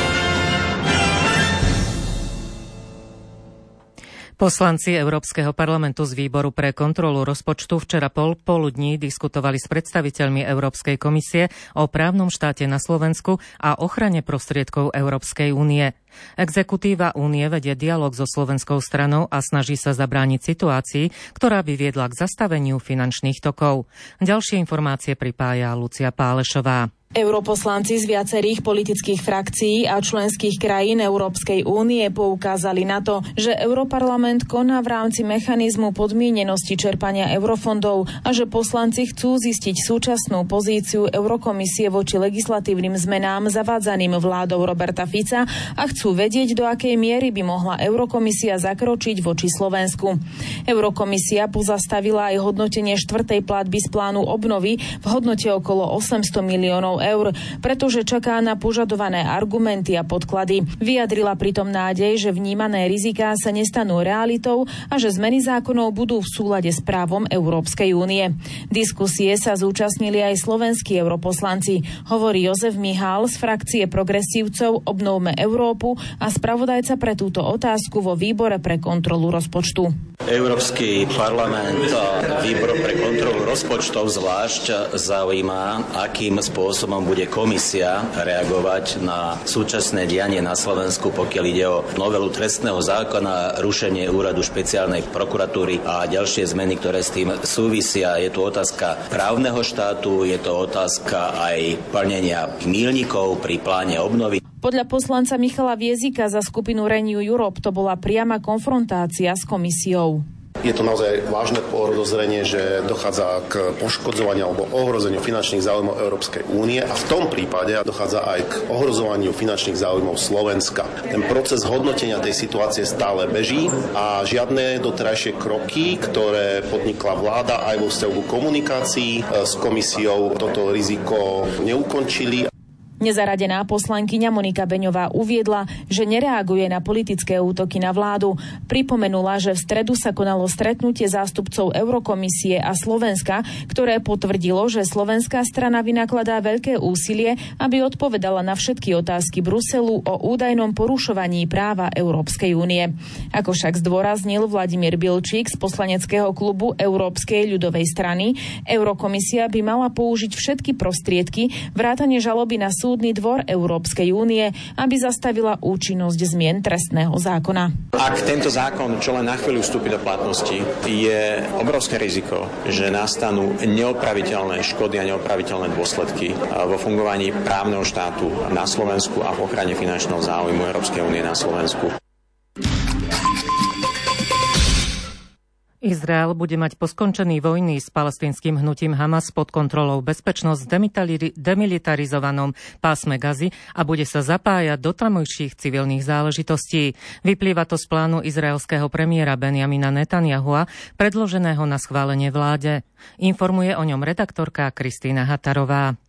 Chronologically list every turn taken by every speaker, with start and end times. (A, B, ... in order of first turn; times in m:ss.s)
0:04.4-0:26.9 A
0:27.2-1:19.9 B
1:20.3-1:44.4 C
1:44.6-1:50.2 B
1:50.6-2:12.5 D
2:13.0-2:47.7 B
2:47.9-3:01.9 E
3:05.8-3:26.0 A